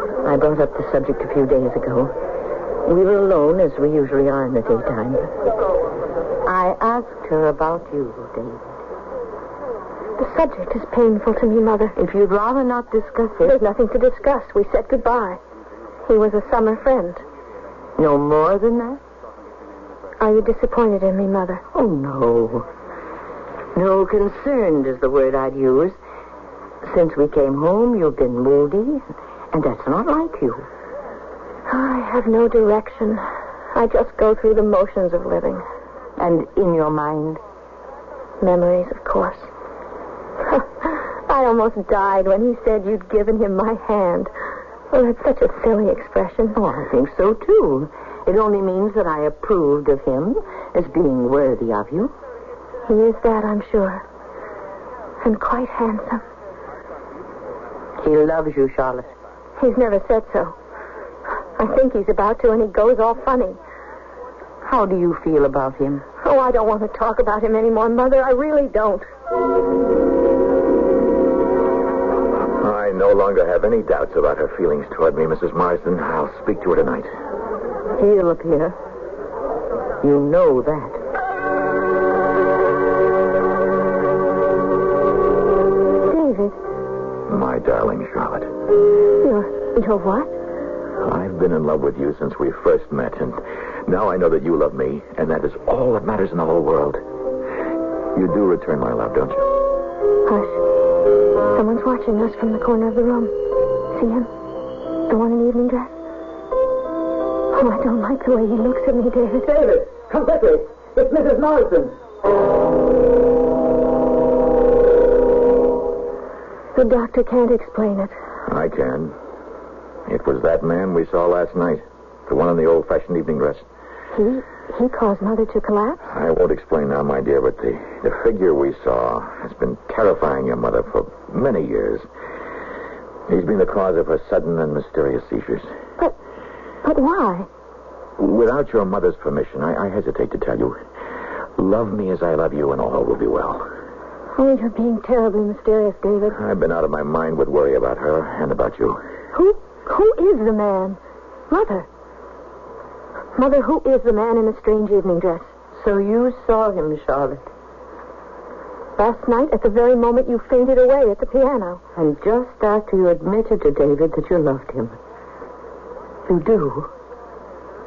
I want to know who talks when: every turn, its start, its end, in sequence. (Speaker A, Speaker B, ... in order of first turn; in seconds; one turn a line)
Speaker A: 0.2-2.1
Speaker A: 2.9-5.3
Speaker A: 6.5-8.7
Speaker B: 10.2-11.9
Speaker A: 12.0-13.6
Speaker B: 13.4-15.4
Speaker B: 16.1-17.2
Speaker A: 18.0-19.0
Speaker B: 20.2-21.6
Speaker A: 21.7-22.7
Speaker A: 23.8-26.0
Speaker A: 26.8-30.7
Speaker B: 31.7-35.6
Speaker A: 36.2-37.4
Speaker B: 38.4-39.5
Speaker B: 40.5-44.3
Speaker B: 44.9-46.6
Speaker A: 46.5-52.1
Speaker B: 52.9-54.0
Speaker B: 55.2-56.2
Speaker A: 58.0-59.1
Speaker B: 59.6-60.6
Speaker B: 61.6-63.6
Speaker A: 64.6-66.0
Speaker B: 66.2-69.1
Speaker C: 72.5-77.1
Speaker A: 78.0-78.8
Speaker A: 80.0-81.0
Speaker B: 86.1-86.6
Speaker C: 87.3-88.5
Speaker B: 89.2-90.3
Speaker C: 91.0-97.0
Speaker C: 98.2-99.5
Speaker B: 100.3-100.6
Speaker B: 101.5-104.3
Speaker B: 105.1-105.9
Speaker B: 107.5-109.8
Speaker D: 109.7-111.9
Speaker B: 116.8-118.1
Speaker C: 118.5-119.2
Speaker C: 120.1-123.7
Speaker B: 124.1-126.0
Speaker C: 126.1-132.1
Speaker C: 133.3-135.7
Speaker B: 136.8-137.5
Speaker C: 138.2-140.8
Speaker C: 141.6-143.7
Speaker B: 144.4-146.4
Speaker C: 146.3-149.0
Speaker B: 149.3-151.0
Speaker B: 151.5-151.9
Speaker B: 153.3-155.5
Speaker A: 155.8-157.5
Speaker B: 159.0-161.8
Speaker A: 162.0-165.0
Speaker A: 166.3-166.9